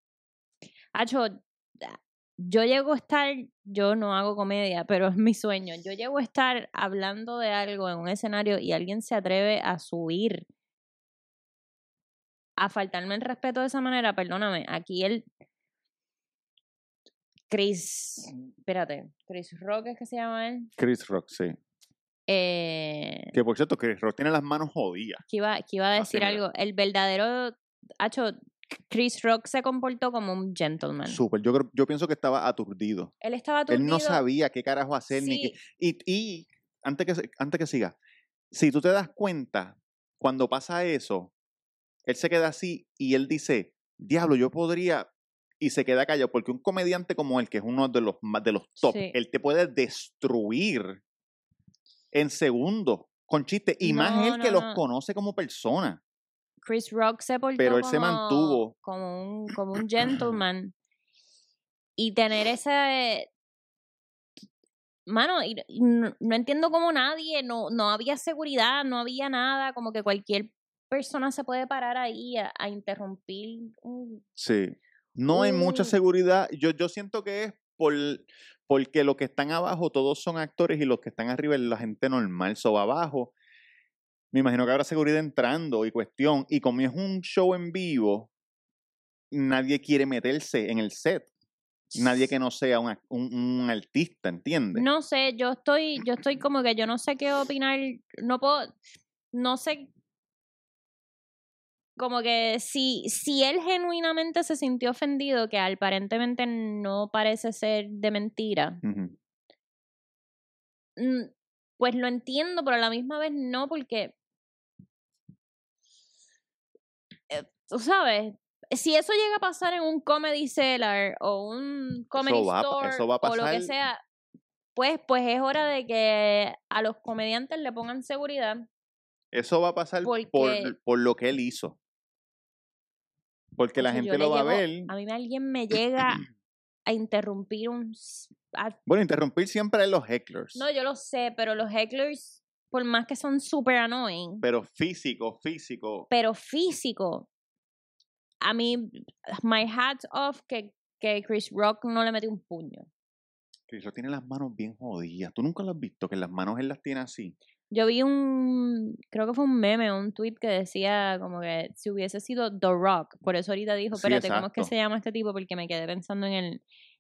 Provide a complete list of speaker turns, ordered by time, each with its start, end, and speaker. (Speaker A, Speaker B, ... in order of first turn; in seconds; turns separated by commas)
Speaker A: 0.9-10.5, Speaker A: 12.6-15.3, Speaker A: 17.5-20.7, Speaker B: 20.8-21.6, Speaker A: 22.3-23.3, Speaker B: 23.3-25.2, Speaker A: 25.3-31.2, Speaker B: 26.0-26.4, Speaker B: 31.1-33.1, Speaker A: 33.2-34.2, Speaker B: 33.7-38.0, Speaker A: 35.1-35.5, Speaker B: 38.5-41.3, Speaker B: 42.1-45.1, Speaker B: 45.6-51.0, Speaker A: 48.8-49.2, Speaker B: 52.1-56.0, Speaker A: 53.8-54.8, Speaker A: 56.6-60.7, Speaker B: 57.6-58.7, Speaker A: 62.0-63.3, Speaker A: 65.1-74.2, Speaker B: 74.4-83.3, Speaker A: 75.3-76.0, Speaker B: 84.3-88.3, Speaker B: 89.3-91.3, Speaker B: 92.0-94.9, Speaker A: 94.8-98.8, Speaker A: 99.3-99.9, Speaker A: 102.0-108.8, Speaker B: 108.8-109.2, Speaker A: 111.0-114.2, Speaker A: 117.3-124.0, Speaker B: 122.2-123.7, Speaker A: 124.8-128.7, Speaker B: 129.3-131.8, Speaker A: 130.0-130.8, Speaker B: 133.6-134.9, Speaker A: 133.8-136.2, Speaker A: 136.9-138.8, Speaker B: 138.9-140.7, Speaker A: 140.6-144.4, Speaker B: 144.4-146.1, Speaker A: 146.1-147.3, Speaker A: 148.4-152.9, Speaker B: 153.7-157.4, Speaker A: 157.7-166.6, Speaker B: 163.9-164.7